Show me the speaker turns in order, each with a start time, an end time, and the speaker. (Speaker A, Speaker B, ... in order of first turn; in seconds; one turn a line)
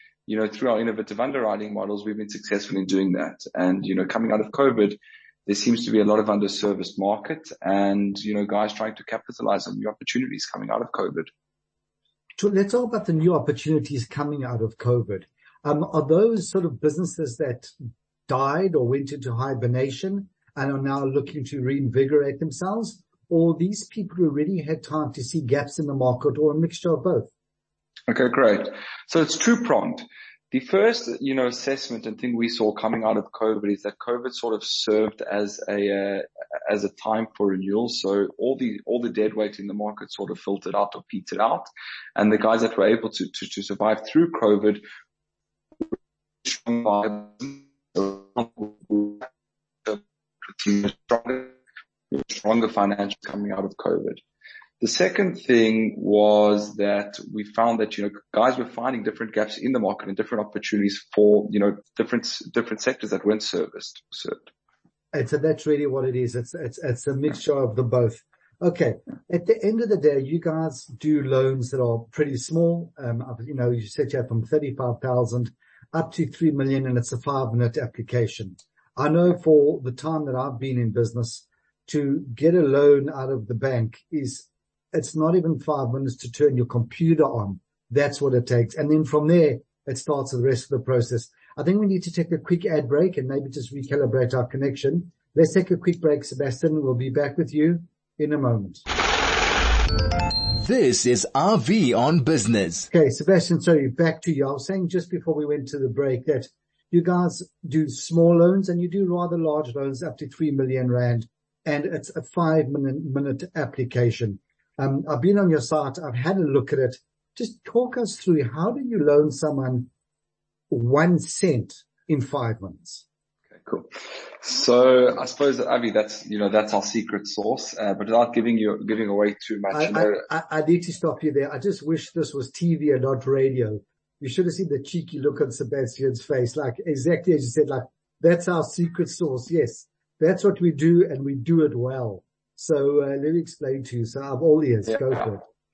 Speaker A: 0.3-11.3
Speaker B: 12.4-17.7
Speaker B: 18.3-27.3
Speaker A: 28.1-44.8
Speaker A: 46.4-49.3
Speaker A: 49.9-51.6
Speaker A: 52.1-54.2
Speaker A: 54.8-64.5
Speaker B: 65.1-98.8
Speaker C: 100.6-102.9
Speaker B: 102.9-119.9
Speaker B: 120.7-123.0
Speaker A: 123.6-130.2
Speaker B: 129.7-145.4
Speaker A: 144.9-145.2